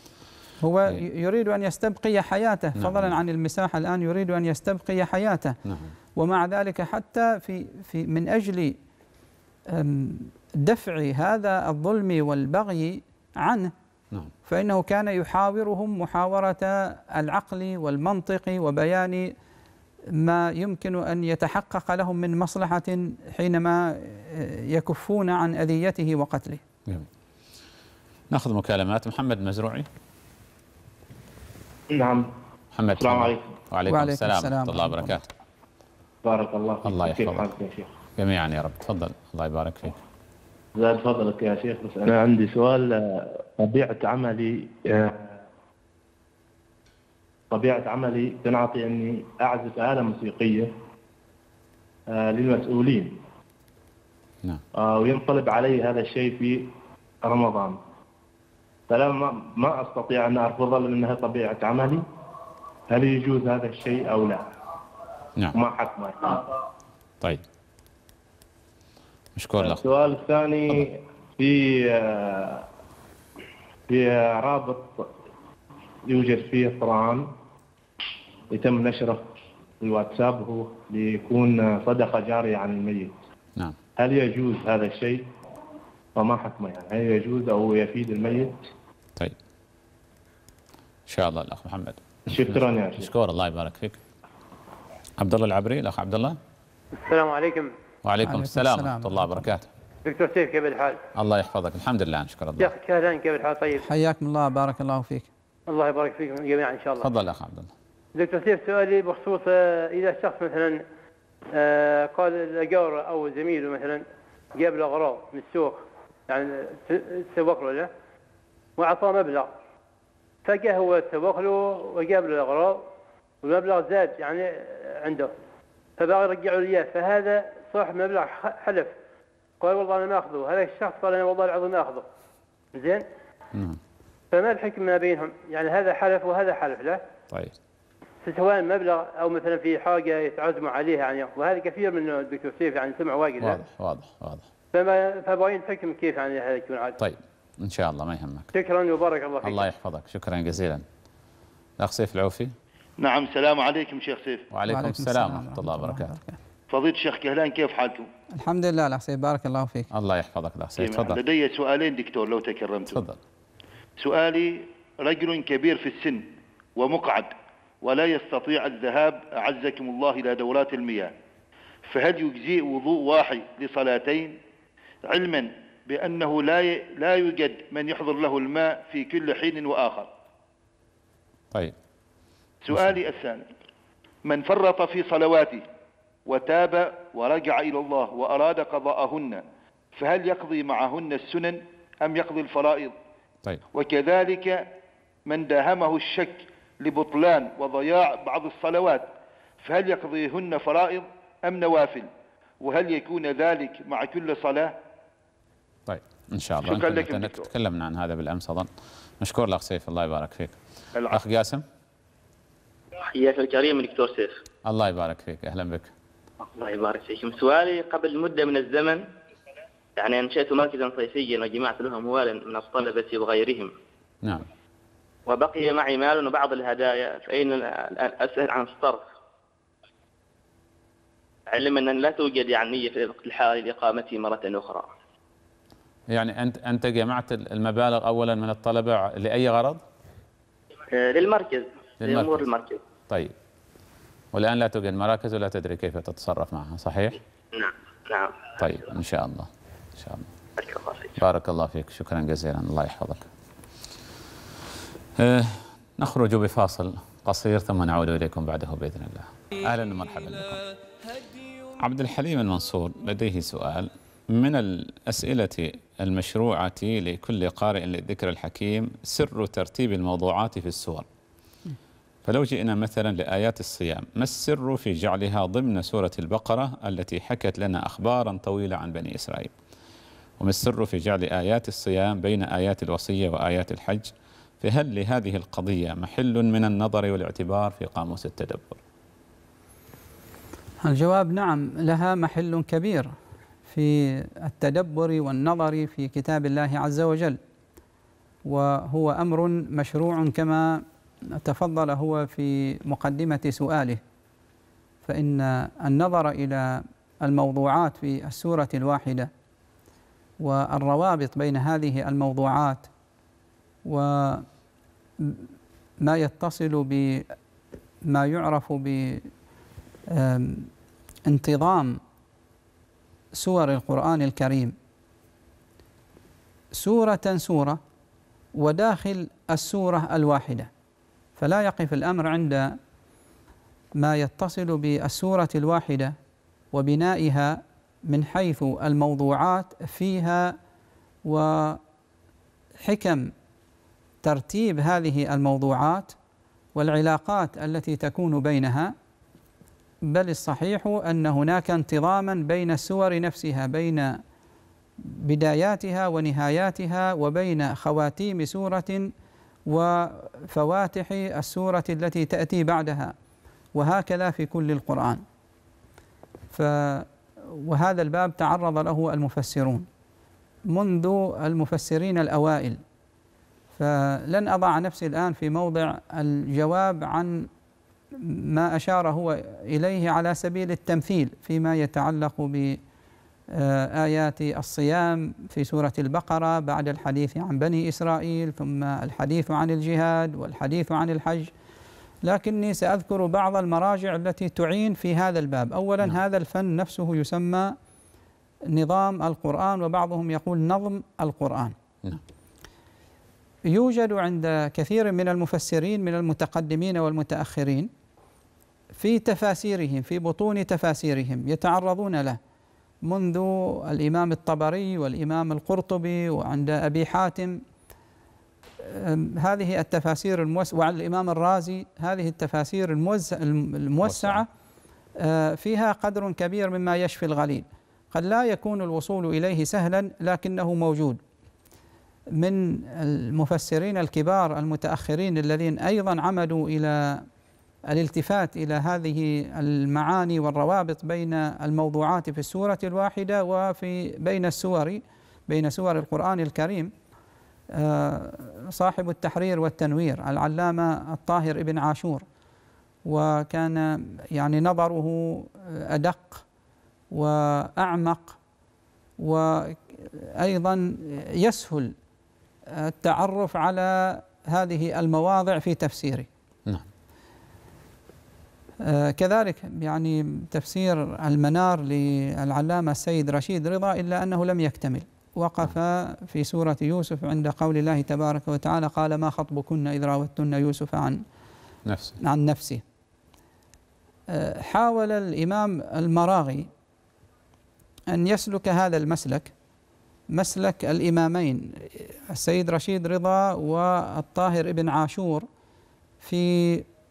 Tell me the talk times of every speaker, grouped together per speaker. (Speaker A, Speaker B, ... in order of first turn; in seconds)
Speaker A: 0.6-5.6, 6.2-8.8, 9.7-13.7, 14.4-19.3, 20.1-26.6, 33.9-35.2, 98.2-99.4, 103.8-105.3, 154.7-156.4, 158.3-159.9, 290.8-293.1, 293.7-297.4, 298.4-304.0, 305.0-309.3, 310.4-312.9, 313.8-314.4, 315.2-315.4, 316.0-317.3, 318.0-319.3, 320.1-320.7, 321.2-322.0, 323.3-324.7, 326.7-327.8, 328.5-330.7, 331.4-332.8, 334.0-336.1, 336.7-340.6, 341.2-341.8, 342.8-343.3, 344.2-346.1, 346.7-348.9, 350.0-354.2, 355.0-359.1, 359.7-363.1, 363.7-365.2, 366.5-369.9, 370.7-372.8, 373.8-377.5, 378.1-382.8, 383.5-391.5, 392.2-397.8, 398.6-401.7, 403.7-407.9, 408.9-412.4, 413.0-417.6, 418.8-424.5, 425.1-431.2, 432.3-437.2, 437.9-446.9, 447.7-452.2, 453.0-456.4, 457.1-458.4, 459.2-461.9, 462.7-466.3, 468.8-481.2, 482.2-482.8, 484.3-486.7, 488.1-489.5, 490.3-495.5, 496.2-496.9
Speaker B: 2.8-3.1, 5.7-5.9, 28.3-29.9, 32.7-35.3, 36.8-37.5, 38.2-40.0, 69.3-69.8, 91.1-94.0, 95.2-96.4, 98.0-99.7, 101.1-102.7, 107.0-107.7, 133.5-133.8, 143.4-144.4, 147.0-148.5, 149.4-150.8, 151.8-152.5, 154.5-156.1, 159.9-161.2, 162.9-163.2, 205.9-208.7, 209.2-211.6, 214.6-215.9, 236.1-239.8, 242.0-242.4, 243.1-243.3, 244.3-247.2, 248.6-250.3, 251.2-253.2, 255.2-260.6, 261.8-271.1, 272.2-279.5, 280.4-288.8, 424.0-424.4, 481.9-482.2
Speaker C: 31.9-32.3, 33.0-33.4, 36.2-37.9, 40.8-45.4, 47.5-50.7, 52.1-53.2, 54.7-57.8, 58.9-62.0, 62.9-64.5, 65.5-66.5, 69.6-72.7, 73.9-75.1, 76.0-77.3, 78.5-79.2, 79.8-83.2, 84.0-85.3, 86.1-88.6, 92.3-93.1
Speaker D: 97.0-97.7, 100.0-101.0, 102.6-103.9, 105.7-107.1, 108.1-110.8, 111.5-117.9, 118.8-119.5, 120.4-122.8, 123.4-125.3, 126.0-128.9, 129.6-132.0, 132.7-133.1, 134.3-137.0, 138.2-143.6, 144.7-147.0, 148.5-149.6
Speaker E: 153.0-154.5, 156.7-158.1, 160.8-163.0, 164.0-171.1, 171.9-174.4, 175.0-180.1, 182.6-183.4, 184.2-185.7, 186.2-192.9, 193.7-194.7, 195.2-199.1, 199.6-202.1, 202.6-204.7, 206.6-207.5
Speaker F: 213.0-214.4, 216.5-219.1, 220.0-223.7, 225.3-229.0, 231.5-234.9, 240.9-242.8, 247.5-248.4, 250.6-251.1